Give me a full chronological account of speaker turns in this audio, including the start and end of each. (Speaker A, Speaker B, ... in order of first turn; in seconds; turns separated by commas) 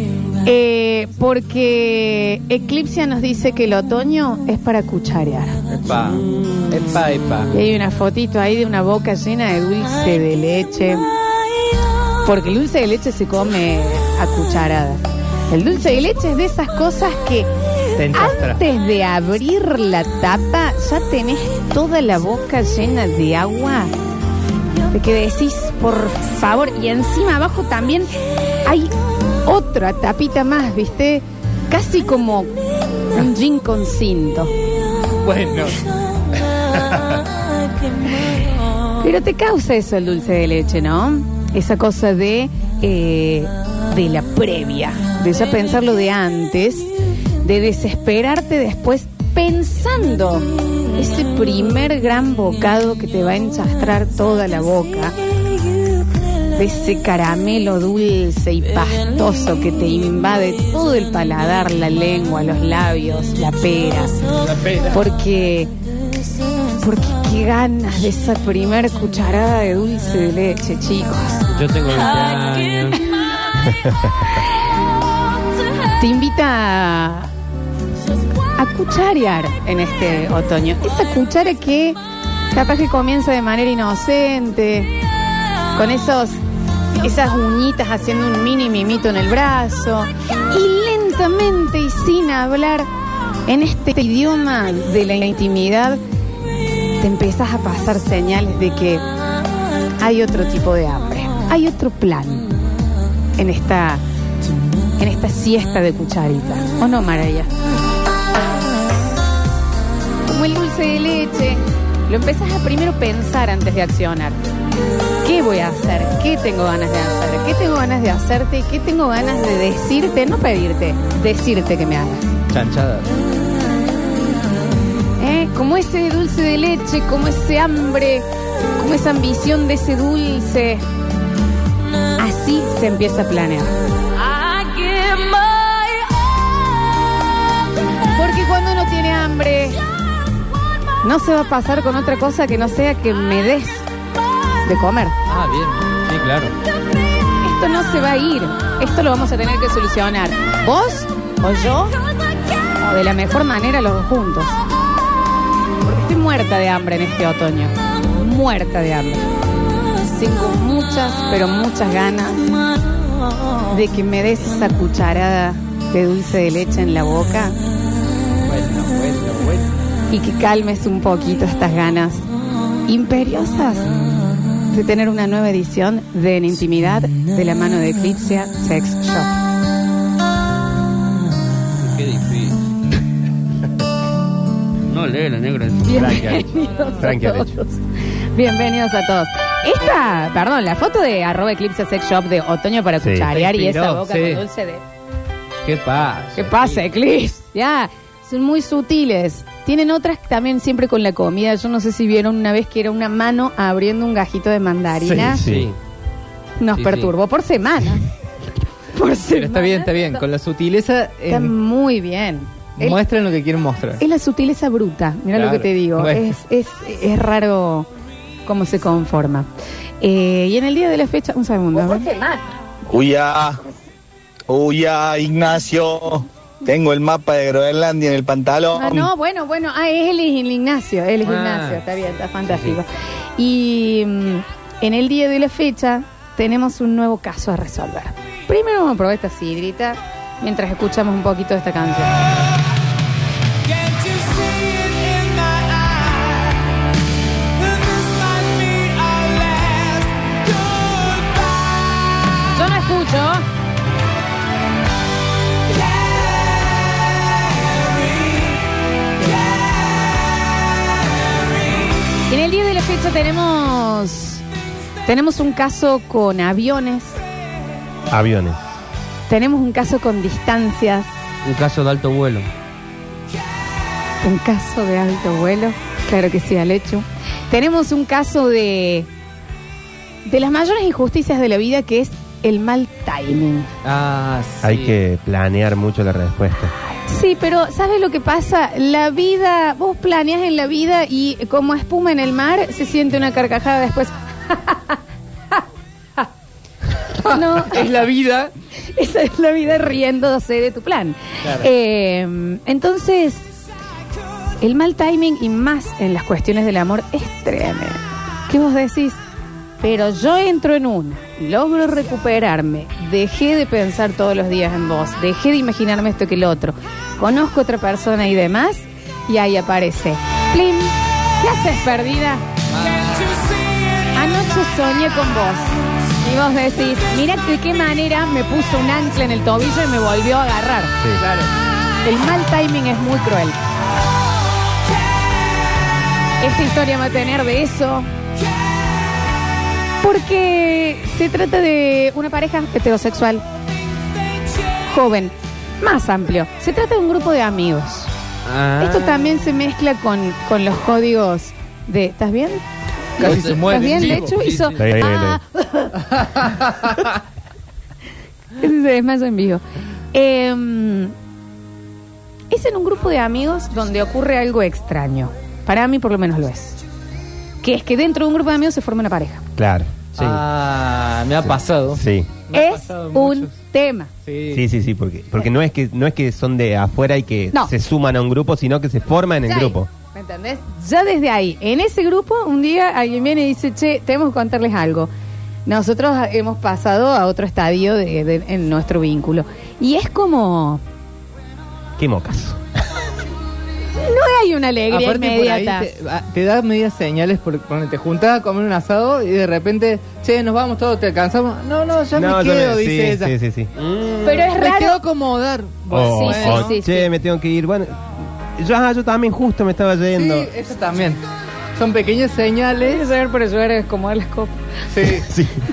Speaker A: 0.4-5.6, Speaker B: 5.7-7.5, Speaker A: 7.5-11.1, Speaker A: 12.2-17.5, Speaker B: 17.9-18.6, Speaker A: 18.1-23.9, Speaker A: 24.9-28.1, Speaker A: 28.6-28.9, Speaker A: 29.4-32.5, Speaker A: 33.1-34.5, Speaker B: 35.2-35.8, Speaker A: 39.0-46.9, Speaker A: 47.4-55.1, Speaker A: 56.5-64.2, Speaker A: 64.9-65.7, Speaker A: 66.8-71.5, Speaker C: 71.5-73.0, Speaker A: 76.0-77.3, Speaker A: 78.5-82.0, Speaker A: 82.5-84.9, Speaker A: 85.7-86.4, Speaker A: 87.0-92.9, Speaker A: 93.5-96.0, Speaker A: 97.0-99.0, Speaker A: 100.0-102.5, Speaker A: 103.4-104.0, Speaker A: 105.0-107.5, Speaker A: 110.2-114.4, Speaker A: 115.2-122.3, Speaker B: 122.5-123.1, Speaker A: 125.2-128.2, Speaker A: 128.8-130.8, Speaker A: 132.2-133.7, Speaker A: 138.1-139.8, Speaker A: 141.0-143.8, Speaker A: 144.6-145.2, Speaker B: 145.3-145.9, Speaker C: 146.1-146.5, Speaker A: 147.4-151.9, Speaker A: 152.8-154.6, Speaker A: 155.8-159.3, Speaker A: 160.0-162.4, Speaker A: 163.7-167.6, Speaker B: 168.4-169.7, Speaker A: 170.1-172.2, Speaker A: 172.8-173.9, Speaker A: 174.7-179.3, Speaker C: 181.8-182.6, Speaker C: 184.9-186.4, Speaker A: 185.8-187.8, Speaker D: 187.0-187.6, Speaker A: 188.3-194.8, Speaker D: 193.0-193.3, Speaker B: 193.3-194.4, Speaker C: 195.7-196.8, Speaker B: 195.9-196.2, Speaker A: 196.4-205.4, Speaker D: 205.2-205.7, Speaker C: 205.3-205.8, Speaker A: 206.6-208.1, Speaker C: 206.7-207.1, Speaker A: 208.9-210.2, Speaker B: 209.3-211.5, Speaker A: 211.3-213.0, Speaker B: 212.8-214.0, Speaker A: 214.0-217.9, Speaker B: 215.3-216.3, Speaker A: 218.4-219.5, Speaker A: 220.0-222.2, Speaker E: 222.9-223.6, Speaker E: 224.5-229.1, Speaker A: 228.7-242.2, Speaker C: 231.2-231.8, Speaker A: 252.5-253.4, Speaker A: 262.3-264.4, Speaker A: 265.1-267.2, Speaker D: 268.1-268.6, Speaker A: 269.3-271.1, Speaker C: 271.4-272.5, Speaker A: 274.2-279.1, Speaker A: 280.2-283.7, Speaker B: 283.8-284.9, Speaker D: 284.6-286.7, Speaker A: 286.9-295.0, Speaker B: 297.2-298.5, Speaker A: 297.2-297.9, Speaker A: 298.9-303.5, Speaker B: 301.4-301.7, Speaker A: 304.6-309.2, Speaker A: 309.8-322.4, Speaker B: 322.7-323.4, Speaker A: 324.1-330.9, Speaker B: 331.2-331.5, Speaker A: 332.0-333.6, Speaker A: 336.4-338.1, Speaker A: 340.0-343.4, Speaker A: 344.9-348.1, Speaker C: 348.4-349.2, Speaker A: 348.8-352.6, Speaker B: 353.2-354.7, Speaker A: 353.2-355.9, Speaker D: 354.8-355.4, Speaker B: 356.1-357.0, Speaker A: 358.6-361.1, Speaker A: 362.5-366.8, Speaker A: 367.6-369.4, Speaker D: 369.6-370.4, Speaker B: 370.1-373.6, Speaker D: 371.4-372.3, Speaker A: 372.5-374.1, Speaker B: 374.2-374.6, Speaker D: 374.5-379.9, Speaker A: 379.4-385.1, Speaker A: 385.6-390.8, Speaker D: 392.0-392.6, Speaker A: 393.9-395.9, Speaker B: 394.9-403.3, Speaker D: 402.1-403.7, Speaker C: 403.8-404.5, Speaker A: 404.2-405.0, Speaker B: 404.6-406.8, Speaker D: 405.9-410.5, Speaker A: 405.9-407.1, Speaker B: 410.1-411.2, Speaker B: 411.8-413.0, Speaker A: 412.8-414.6, Speaker B: 414.9-415.3, Speaker D: 415.1-415.6